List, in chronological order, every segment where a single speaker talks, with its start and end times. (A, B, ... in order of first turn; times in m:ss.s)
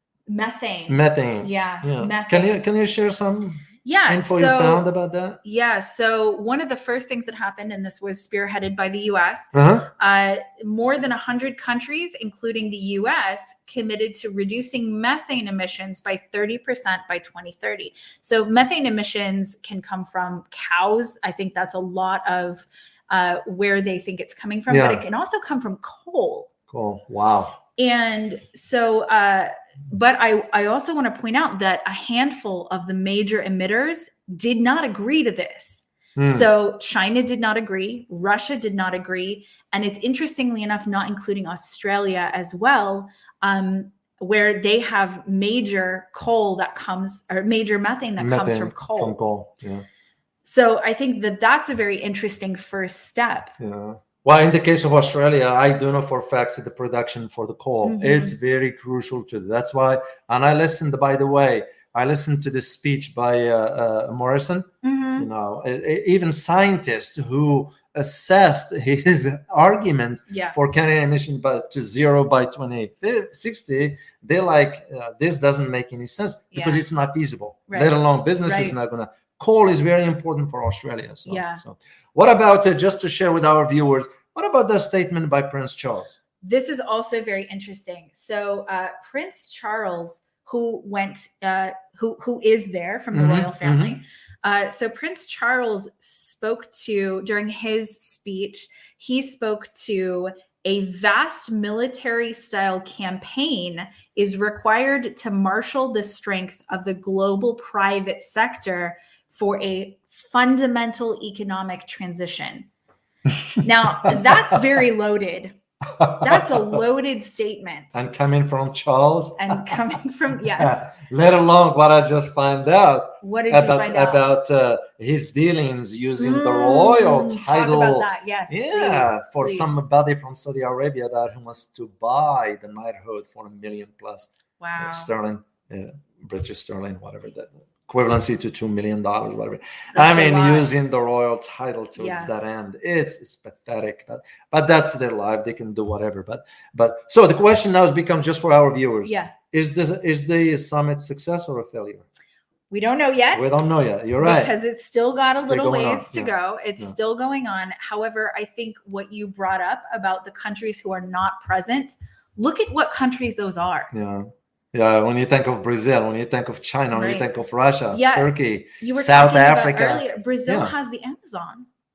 0:00.3-0:02.6 A
0:00.9-0:05.4 B
0:03.8-0:04.8 A
0:05.4-0:26.5 A
0:09.5-0:09.9 B
0:24.7-0:25.0 B
0:26.7-0:27.6 B
0:27.8-0:49.2 A
0:36.2-0:36.5 B
0:48.2-0:49.8 B
0:50.4-0:53.5 A
0:53.6-1:26.2 B
0:57.8-0:58.4 A
1:04.8-1:05.3 A
1:10.3-1:10.6 A
1:16.5-1:16.8 A
1:17.7-1:18.8 A
1:21.2-1:21.6 A
1:26.4-1:52.7 A
1:33.1-1:34.0 B
1:53.6-1:55.5 A
1:53.8-1:54.1 B
1:56.0-1:56.6 B
1:56.1-1:58.0 A
1:57.9-1:59.8 B
1:59.4-2:00.9 A
2:00.6-2:32.0 B
2:03.2-2:04.2 A
2:06.2-2:09.7 A
2:14.6-2:15.1 A
2:19.9-2:20.7 A
2:22.0-2:22.3 A
2:29.0-2:29.3 A
2:32.7-2:33.5 A
2:33.3-2:34.5 B
2:34.2-2:43.9 A
2:35.4-2:36.9 B
2:43.9-2:50.7 B
2:46.9-2:47.3 A
2:47.9-2:51.7 A